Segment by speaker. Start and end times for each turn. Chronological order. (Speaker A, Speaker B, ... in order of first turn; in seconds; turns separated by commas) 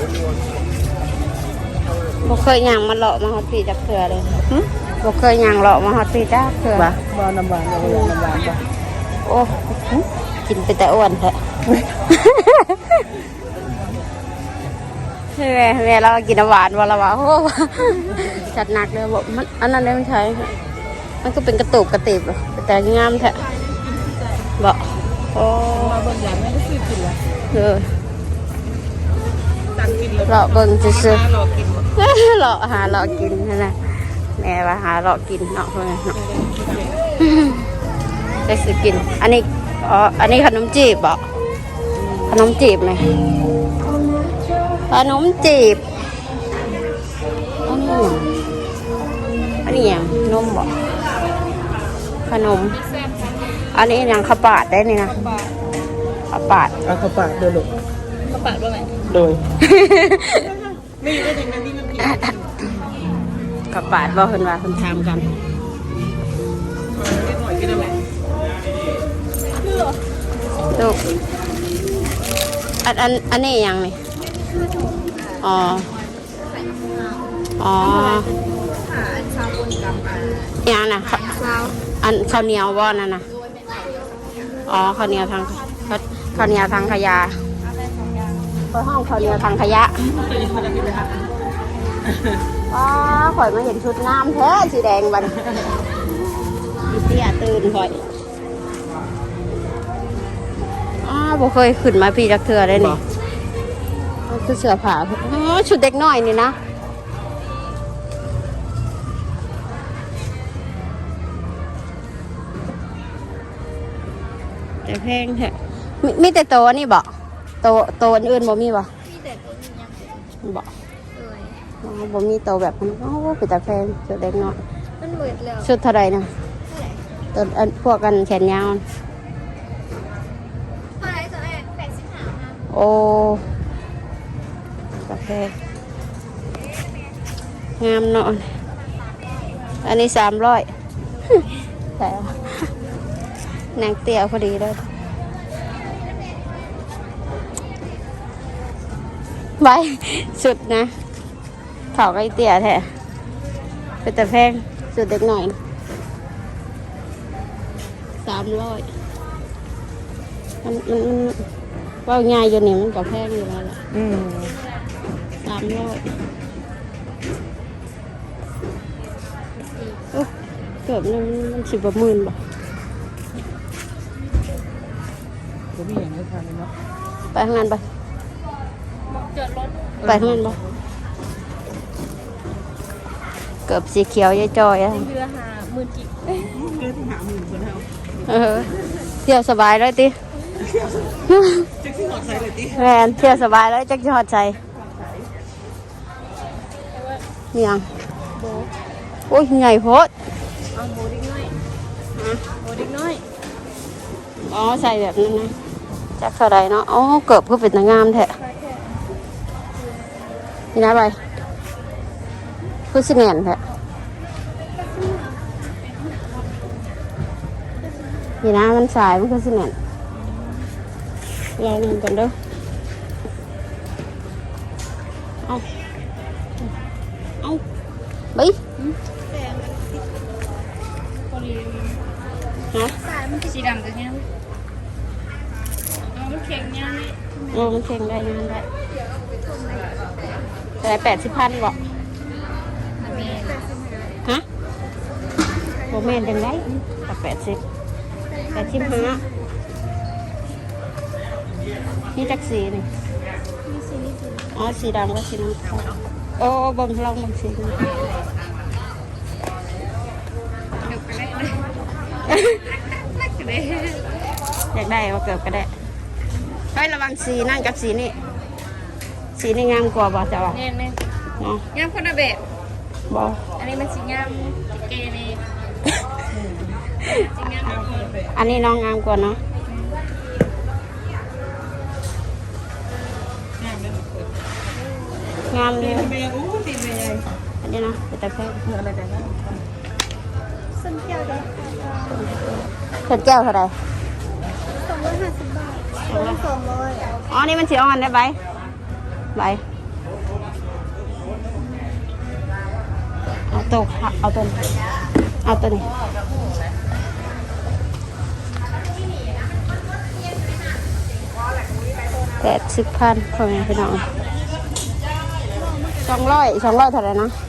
Speaker A: 2.2-4.4, Speaker A: 5.0-7.0, Speaker B: 6.7-8.7, Speaker A: 7.8-8.2, Speaker A: 9.2-9.7, Speaker A: 10.5-11.4, Speaker A: 12.1-13.0, Speaker A: 15.3-20.5, Speaker A: 21.2-23.4, Speaker B: 23.9-24.4, Speaker A: 24.6-26.0, Speaker B: 25.7-27.2, Speaker A: 27.5-27.9, Speaker B: 29.7-31.9, Speaker A: 30.3-31.2, Speaker A: 31.9-36.1, Speaker B: 36.1-37.0, Speaker A: 37.2-37.6, Speaker A: 38.5-41.2, Speaker B: 42.0-42.3, Speaker A: 42.3-43.0, Speaker A: 44.9-45.8, Speaker A: 47.6-48.3, Speaker A: 49.6-50.7, Speaker A: 52.3-52.8, Speaker C: 52.8-53.7, Speaker A: 53.7-55.2, Speaker C: 55.2-55.5, Speaker A: 56.3-56.7, Speaker B: 56.8-57.7, Speaker C: 58.2-59.0, Speaker B: 59.0-59.4, Speaker A: 59.6-60.5, Speaker B: 60.9-62.7, Speaker A: 63.7-65.3, Speaker B: 66.9-68.0, Speaker A: 70.7-71.0, Speaker A: 72.8-74.0, Speaker C: 74.3-77.2, Speaker A: 75.4-75.9, Speaker A: 77.6-78.3, Speaker C: 77.8-80.5, Speaker A: 80.6-81.4, Speaker C: 81.1-81.8, Speaker A: 82.0-83.2, Speaker C: 83.4-84.8, Speaker A: 84.7-87.3, Speaker C: 87.6-88.5, Speaker A: 88.7-90.0, Speaker C: 89.2-89.5, Speaker B: 90.0-91.3, Speaker B: 92.1-92.4, Speaker A: 92.7-95.4, Speaker A: 96.9-98.0, Speaker A: 101.0-103.0, Speaker A: 104.3-106.6, Speaker A: 114.8-117.1, Speaker A: 117.6-118.9, Speaker C: 119.0-120.3, Speaker A: 120.4-120.7, Speaker C: 121.2-121.6, Speaker A: 121.8-124.6, Speaker C: 125.0-125.7, Speaker A: 125.6-126.3, Speaker C: 126.7-127.0, Speaker A: 127.3-128.8, Speaker C: 131.0-132.6, Speaker A: 132.7-133.4, Speaker A: 135.0-135.5, Speaker A: 137.8-138.5, Speaker A: 139.8-140.7, Speaker A: 142.0-142.5, Speaker A: 143.8-144.9, Speaker A: 149.6-150.9, Speaker A: 151.9-152.9, Speaker A: 154.0-155.6, Speaker A: 158.2-158.9, Speaker A: 160.6-161.5, Speaker A: 162.1-163.8, Speaker B: 163.9-164.6, Speaker A: 165.4-166.1, Speaker A: 170.9-172.4, Speaker B: 175.7-176.7, Speaker A: 177.3-177.8, Speaker C: 179.1-180.0, Speaker A: 180.0-180.6, Speaker B: 180.0-180.7, Speaker A: 183.7-185.1, Speaker C: 184.9-186.6, Speaker B: 186.5-187.9, Speaker A: 188.3-188.7, Speaker A: 189.2-190.2, Speaker B: 190.6-191.1, Speaker A: 191.3-191.7, Speaker B: 191.8-192.8, Speaker A: 192.7-194.6, Speaker C: 196.9-197.2, Speaker A: 197.5-197.9, Speaker C: 198.4-198.7, Speaker A: 199.3-200.1, Speaker C: 200.7-201.6, Speaker A: 202.2-202.4, Speaker C: 202.6-203.2, Speaker A: 204.4-205.5, Speaker A: 206.2-208.3, Speaker C: 208.5-208.8, Speaker A: 210.7-211.2, Speaker A: 212.9-213.6, Speaker C: 214.8-215.4, Speaker A: 218.4-219.8, Speaker C: 220.3-220.6, Speaker A: 221.6-222.3, Speaker C: 228.8-230.0, Speaker C: 231.3-232.1, Speaker C: 233.0-234.3, Speaker C: 236.0-237.4, Speaker A: 237.5-238.7, Speaker C: 239.4-240.1, Speaker A: 240.8-241.8, Speaker C: 243.0-244.2, Speaker C: 245.8-246.6, Speaker A: 245.9-247.6, Speaker C: 248.3-249.2, Speaker A: 248.5-249.2, Speaker A: 252.2-252.9, Speaker C: 253.7-254.5, Speaker A: 254.5-257.9, Speaker C: 260.8-261.7, Speaker A: 262.3-262.8, Speaker C: 263.0-264.1, Speaker A: 264.7-265.7, Speaker A: 266.7-268.1, Speaker A: 269.4-270.6, Speaker C: 270.5-271.0, Speaker C: 271.7-272.4, Speaker A: 273.1-273.4, Speaker C: 273.6-275.4, Speaker B: 276.3-276.8, Speaker C: 277.0-278.1, Speaker B: 277.6-278.4, Speaker A: 278.3-279.4, Speaker C: 279.7-280.0, Speaker B: 283.6-284.3, Speaker A: 285.5-286.1, Speaker B: 285.8-287.3, Speaker A: 287.6-288.6, Speaker B: 288.6-289.6, Speaker C: 290.7-292.1, Speaker A: 292.0-293.7, Speaker C: 294.7-297.2, Speaker A: 296.1-296.4, Speaker A: 297.3-298.4, Speaker A: 299.4-299.6, Speaker A: 303.5-304.7, Speaker A: 305.4-305.9, Speaker A: 312.4-314.0, Speaker A: 316.0-317.4